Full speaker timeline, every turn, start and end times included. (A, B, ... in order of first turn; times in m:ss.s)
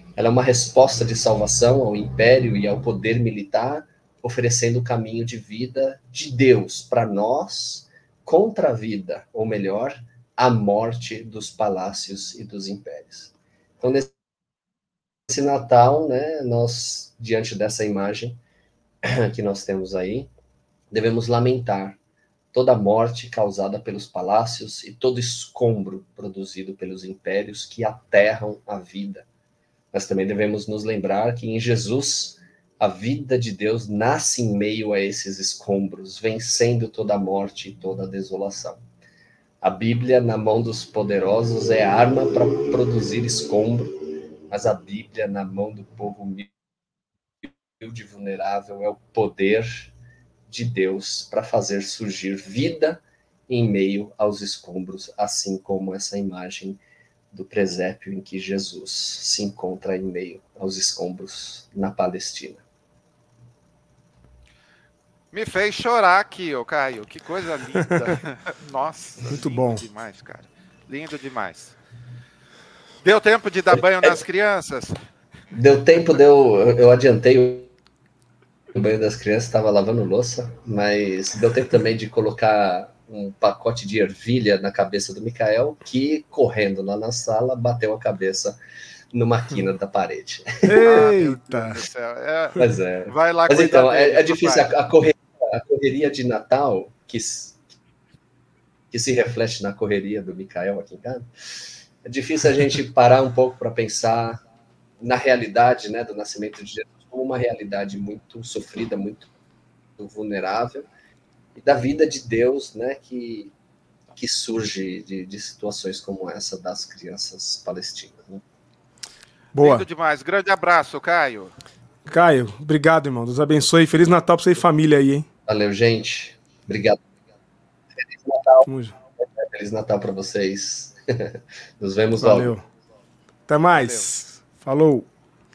0:00.2-0:14.1 A
0:15.3-0:18.4 A
0:19.0-0:20.3 A
0:20.9-0:22.0 A
0:22.5-0:29.3 A
0:29.9-0:38.8 A
0:39.6-0:44.0 A
0:44.5-0:46.5 A
0:47.8-0:49.9 A
0:50.5-0:56.8 A
0:57.3-1:02.6 A
1:05.3-1:11.8 B
1:07.8-1:08.1 C
1:09.3-1:09.8 C
1:13.0-1:15.0 B
1:15.5-1:17.7 A
1:18.7-1:28.6 A
1:29.1-1:31.1 A
1:30.6-1:31.8 C
1:30.8-1:34.7 B
1:32.6-1:37.6 A
1:38.9-1:41.3 A
1:42.0-1:44.4 A
1:45.0-1:49.3 A
1:50.0-1:50.9 A
1:51.6-1:53.5 A
1:54.1-1:58.4 A
1:59.6-1:59.9 C
1:59.6-2:01.5 B
2:02.1-2:05.3 C
2:05.5-2:07.0 A
2:08.2-2:08.7 A
2:08.6-2:08.9 C
2:09.2-2:12.5 A
2:12.2-2:12.6 C
2:13.5-2:15.1 C
2:13.7-2:14.1 B